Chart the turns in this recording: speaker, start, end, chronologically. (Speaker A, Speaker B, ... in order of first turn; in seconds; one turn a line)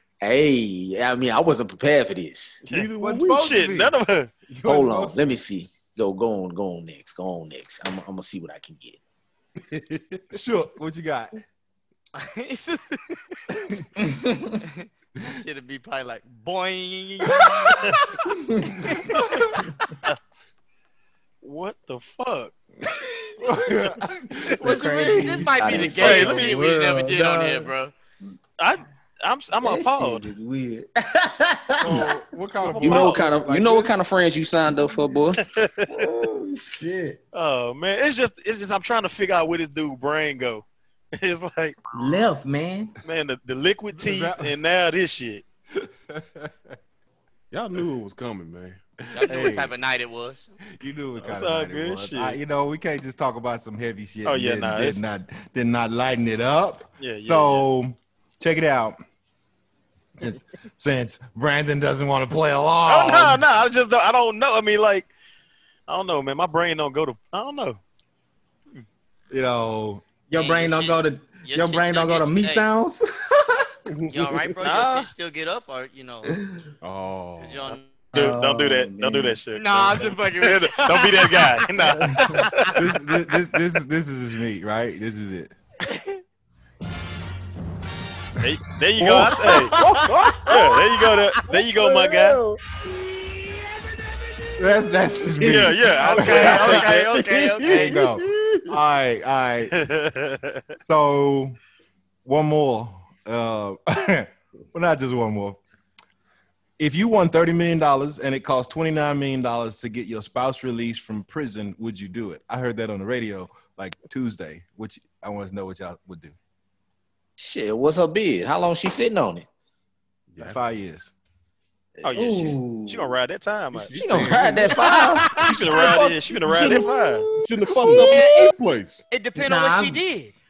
Speaker A: 0.2-2.6
Speaker B: 2.7-3.6
Speaker C: 2.7-4.3
Speaker D: 3.0-4.0
Speaker D: 4.5-5.2
Speaker A: 4.7-9.0
Speaker B: 9.6-10.2
Speaker D: 10.3-11.4
Speaker E: 12.2-13.4
Speaker F: 14.0-14.6
Speaker E: 14.7-17.8
Speaker D: 17.2-18.0
Speaker F: 18.5-18.8
Speaker E: 18.9-19.2
Speaker D: 19.1-19.6
Speaker C: 21.4-22.6
Speaker D: 23.4-25.6
Speaker F: 24.5-27.7
Speaker E: 25.1-27.9
Speaker A: 25.6-26.2
Speaker C: 25.8-26.6
Speaker C: 28.6-30.3
Speaker F: 29.6-32.1
Speaker D: 31.8-34.0
Speaker C: 32.6-33.2
Speaker A: 32.8-35.4
Speaker C: 35.4-36.1
Speaker F: 35.9-37.2
Speaker C: 37.3-40.6
Speaker C: 41.2-41.8
Speaker F: 41.9-42.9
Speaker C: 43.0-45.4
Speaker D: 44.0-44.5
Speaker D: 45.8-46.7
Speaker B: 47.5-48.8
Speaker E: 49.1-50.6
Speaker D: 49.2-49.5
Speaker C: 49.3-49.7
Speaker D: 50.7-59.0
Speaker C: 51.2-52.4
Speaker C: 54.2-55.0
Speaker C: 57.0-57.7
Speaker D: 60.2-63.4
Speaker C: 62.9-65.1
Speaker C: 65.9-67.8
Speaker D: 69.3-70.0
Speaker F: 70.3-73.7
Speaker E: 70.3-72.7
Speaker B: 73.9-74.6
Speaker E: 74.1-76.3
Speaker C: 74.6-75.1
Speaker B: 76.8-77.8
Speaker E: 77.4-78.0
Speaker C: 78.1-82.7
Speaker F: 78.1-79.4
Speaker E: 79.5-81.7
Speaker E: 82.2-82.8
Speaker D: 82.8-85.5
Speaker E: 85.9-86.2
Speaker C: 88.4-89.8
Speaker D: 89.0-89.4
Speaker E: 89.7-90.3
Speaker B: 89.7-90.8
Speaker C: 90.5-92.4
Speaker B: 91.5-92.6
Speaker D: 94.6-96.8
Speaker C: 95.4-97.1
Speaker E: 96.0-98.0
Speaker B: 96.3-98.8
Speaker D: 97.7-99.8
Speaker C: 99.7-100.7
Speaker D: 100.8-101.6
Speaker D: 102.2-105.6
Speaker D: 106.8-116.3
Speaker A: 117.4-119.5
Speaker B: 120.3-120.7
Speaker D: 120.4-121.1
Speaker A: 122.0-122.5
Speaker C: 122.0-124.0
Speaker F: 122.1-123.1
Speaker B: 123.7-129.1
Speaker A: 124.0-125.4
Speaker C: 125.4-127.3
Speaker F: 127.8-128.1
Speaker E: 127.9-128.5
Speaker E: 129.1-130.3
Speaker F: 129.4-130.0